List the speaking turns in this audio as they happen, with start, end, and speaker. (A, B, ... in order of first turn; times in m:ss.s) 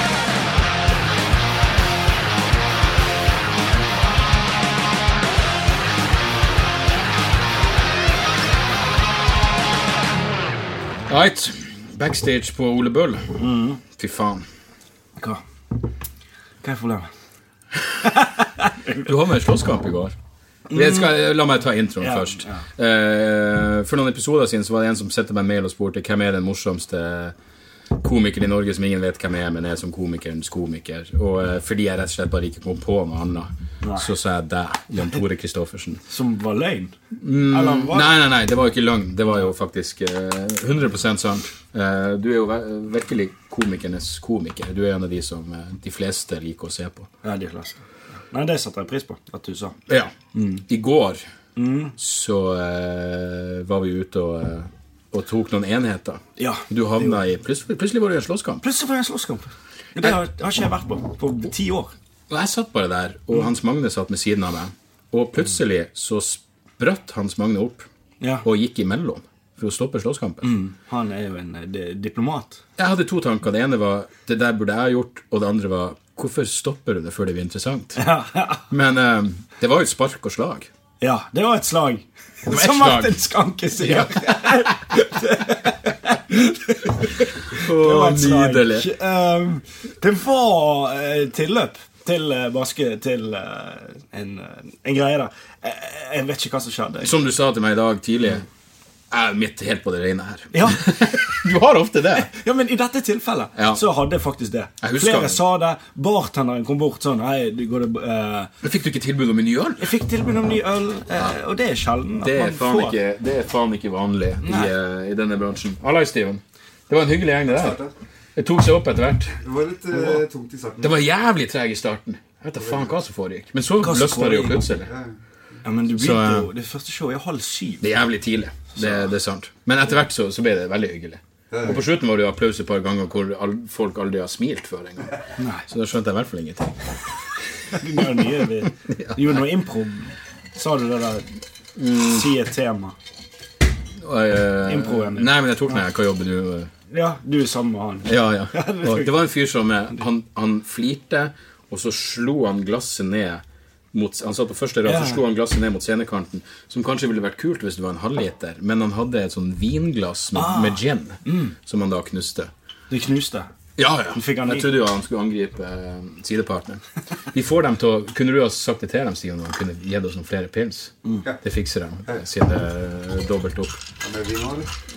0:11.1-0:13.4 A
0:13.4-0:13.8 B
0:13.9-0:14.4 A
0:16.6-0:17.1 B
0:18.0-0:19.1 B
0:19.0-0:20.1 A
0:20.7-0:21.1 B
0:20.7-0:27.3 A
0:22.0-0:22.6 B
0:28.0-0:36.0 A
0:33.8-0:34.1 B
0:36.1-0:38.2 B
0:37.2-0:47.1 A
0:47.2-0:49.7 B
0:49.9-0:51.2 A
0:50.3-0:50.6 B
0:51.6-0:52.0 B
0:52.0-0:58.6 A
0:56.4-0:57.2 B
0:58.6-1:01.9 B
1:02.3-1:07.9 A
1:08.2-1:08.4 B
1:08.4-1:10.6 A
1:10.4-1:12.6 B
1:12.8-1:18.0 A
1:18.0-1:18.6 B
1:18.7-1:20.7 A
1:21.0-1:37.1 B
1:22.5-1:23.2 A
1:23.8-1:24.7 A
1:27.5-1:28.9 A
1:37.0-1:38.4 A
1:39.1-1:42.3 A
1:40.5-1:41.4 B
1:42.2-1:48.5 B
1:43.6-1:43.8 A
1:44.8-1:45.4 A
1:48.6-1:50.0 A
1:49.8-1:53.0 B
1:52.2-1:57.8 A
1:54.4-1:54.7 B
1:57.5-1:57.9 C
1:58.4-1:59.4 A
1:59.4-2:01.0 C
2:00.8-2:04.9 A
2:02.6-2:02.9 C
2:03.8-2:04.7 B
2:04.8-2:05.2 C
2:05.6-2:07.8 B
2:05.9-2:06.5 A
2:07.8-2:15.1 A
2:08.8-2:09.1 B
2:11.5-2:11.8 C
2:15.4-2:15.6 B
2:15.7-2:16.9 A
2:17.7-2:21.2 B
2:21.8-2:22.3 A
2:21.9-2:22.9 B
2:24.0-2:26.7 A
2:24.6-2:25.3 B
2:26.9-2:29.1 B
2:28.0-2:42.5 A
2:34.8-2:35.2 B
2:40.3-2:41.5 B
2:42.9-2:43.5 B
2:43.8-2:46.8 A
2:44.1-2:44.7 B
2:47.3-2:53.8 A
2:54.0-2:54.7 C